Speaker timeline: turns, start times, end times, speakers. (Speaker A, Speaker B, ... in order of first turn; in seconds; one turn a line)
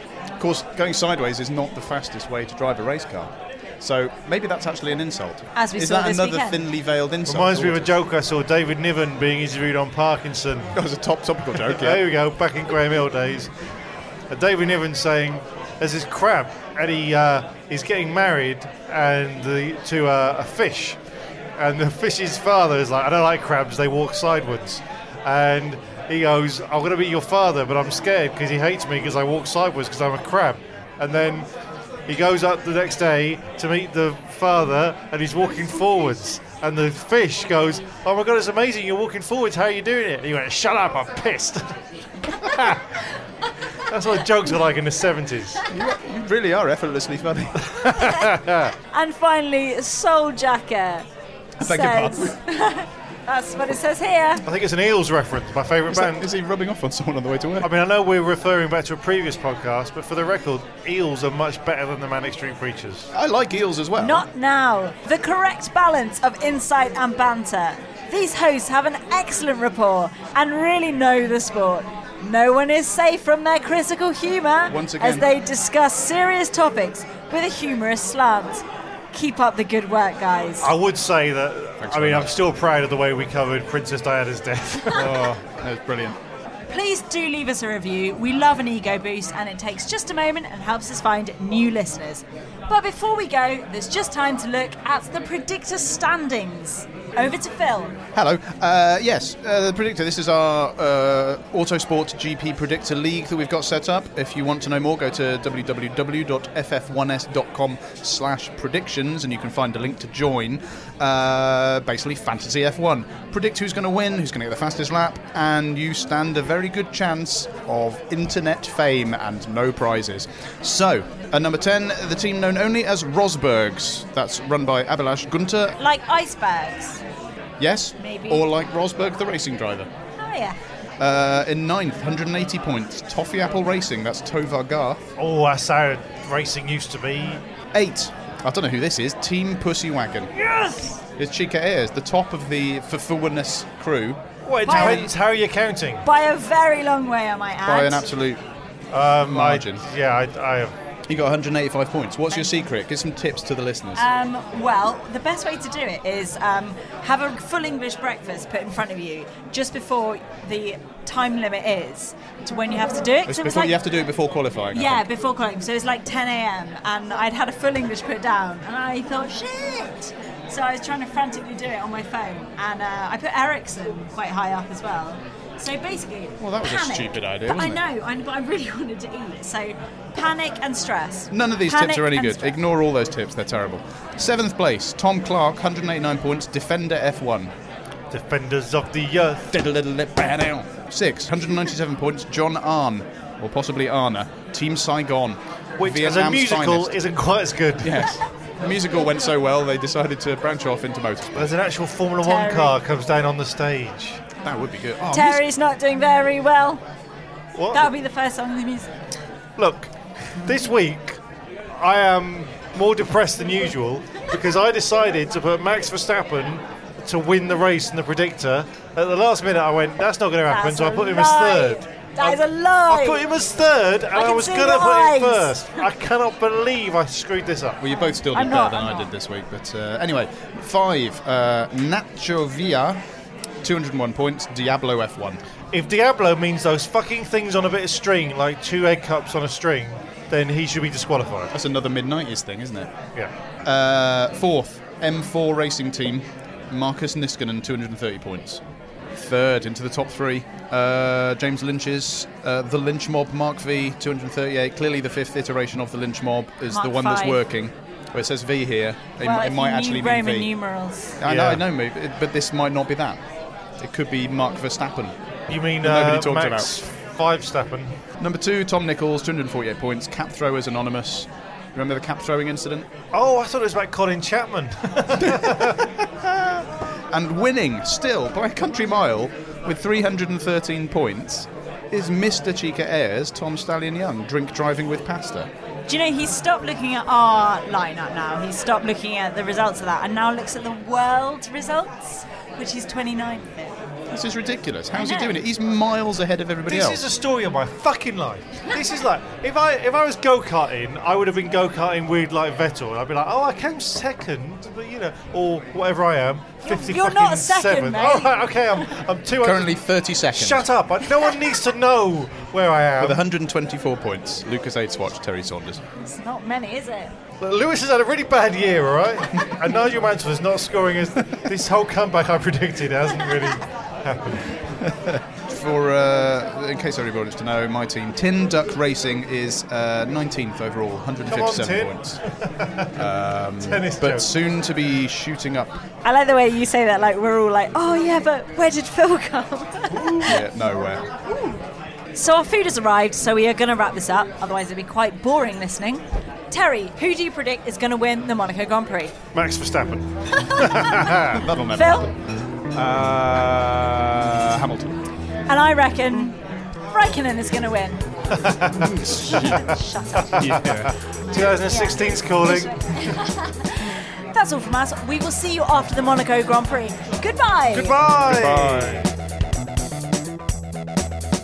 Speaker A: 0.4-8.0
Speaker B: 5.5-6.6
Speaker C: 7.3-10.8
Speaker A: 10.7-12.0
Speaker C: 11.6-13.5
Speaker C: 14.3-21.0
Speaker C: 21.6-31.5
Speaker C: 32.1-41.7
Speaker C: 42.4-42.8
Speaker C: 43.9-45.6
Speaker A: 45.7-48.1
Speaker C: 47.8-48.7
Speaker B: 47.9-48.3
Speaker B: 48.9-51.1
Speaker B: 51.6-54.5
Speaker A: 51.6-52.4
Speaker C: 54.5-56.3
Speaker A: 55.9-57.7
Speaker C: 57.6-63.1
Speaker A: 63.1-64.2
Speaker B: 64.0-80.7
Speaker A: 74.7-75.3
Speaker C: 80.6-85.3
Speaker A: 81.8-82.3
Speaker A: 84.9-86.2
Speaker B: 86.7-98.0
Speaker A: 98.2-125.8
Speaker B: 125.8-127.0
Speaker A: 127.6-129.9
Speaker B: 128.0-128.5
Speaker B: 130.2-130.6
Speaker A: 131.0-135.0
Speaker C: 135.2-137.4
Speaker A: 137.7-140.3
Speaker C: 140.3-141.0
Speaker A: 141.2-145.1
Speaker C: 144.4-146.0
Speaker B: 144.6-145.1
Speaker B: 146.0-148.1
Speaker A: 147.7-148.4
Speaker C: 148.9-150.8
Speaker A: 149.3-149.8
Speaker A: 151.1-154.0
Speaker B: 152.3-152.6
Speaker B: 153.9-163.8
Speaker A: 163.3-165.1
Speaker B: 164.7-182.6
Speaker A: 176.4-177.8
Speaker A: 181.3-187.5
Speaker C: 188.1-189.5
Speaker A: 189.5-197.0
Speaker C: 195.8-198.1
Speaker A: 197.8-201.5
Speaker C: 201.3-204.2
Speaker B: 202.2-202.8
Speaker A: 204.4-205.4
Speaker B: 205.1-206.8
Speaker C: 207.6-207.9
Speaker B: 207.7-208.9
Speaker C: 209.6-211.2
Speaker C: 211.8-227.8
Speaker B: 220.5-223.2
Speaker B: 224.1-225.6
Speaker A: 227.8-233.0
Speaker B: 228.0-229.1
Speaker A: 233.6-235.4
Speaker C: 235.7-241.5
Speaker A: 241.5-242.9
Speaker A: 243.7-248.6
Speaker A: 249.2-260.5
Speaker B: 256.7-257.4
Speaker B: 259.2-261.2
Speaker A: 261.2-263.2
Speaker C: 261.2-261.6
Speaker A: 263.8-265.2
Speaker C: 265.5-268.0
Speaker A: 265.8-266.7
Speaker A: 268.2-272.9
Speaker C: 273.1-275.8
Speaker A: 275.2-285.5
Speaker B: 285.9-293.8
Speaker A: 294.1-297.0
Speaker B: 294.9-295.4
Speaker C: 296.7-313.2
Speaker B: 306.6-308.9
Speaker A: 309.4-310.7
Speaker A: 313.0-315.8
Speaker B: 316.0-317.1
Speaker C: 317.4-324.6
Speaker A: 324.8-332.2
Speaker C: 331.3-333.0
Speaker A: 333.0-335.8
Speaker C: 333.6-334.3
Speaker B: 336.0-340.4
Speaker C: 339.9-340.3
Speaker A: 340.2-341.0
Speaker B: 341.2-341.6
Speaker B: 342.1-349.1
Speaker C: 349.3-351.4
Speaker A: 351.3-352.1
Speaker B: 351.7-352.1
Speaker A: 352.7-355.0
Speaker B: 355.5-356.4
Speaker B: 356.9-358.1
Speaker C: 358.3-358.9
Speaker A: 358.8-359.7
Speaker B: 359.0-360.5
Speaker A: 360.4-360.9
Speaker C: 360.4-362.7
Speaker B: 361.3-368.0
Speaker C: 367.7-369.1
Speaker A: 368.3-369.1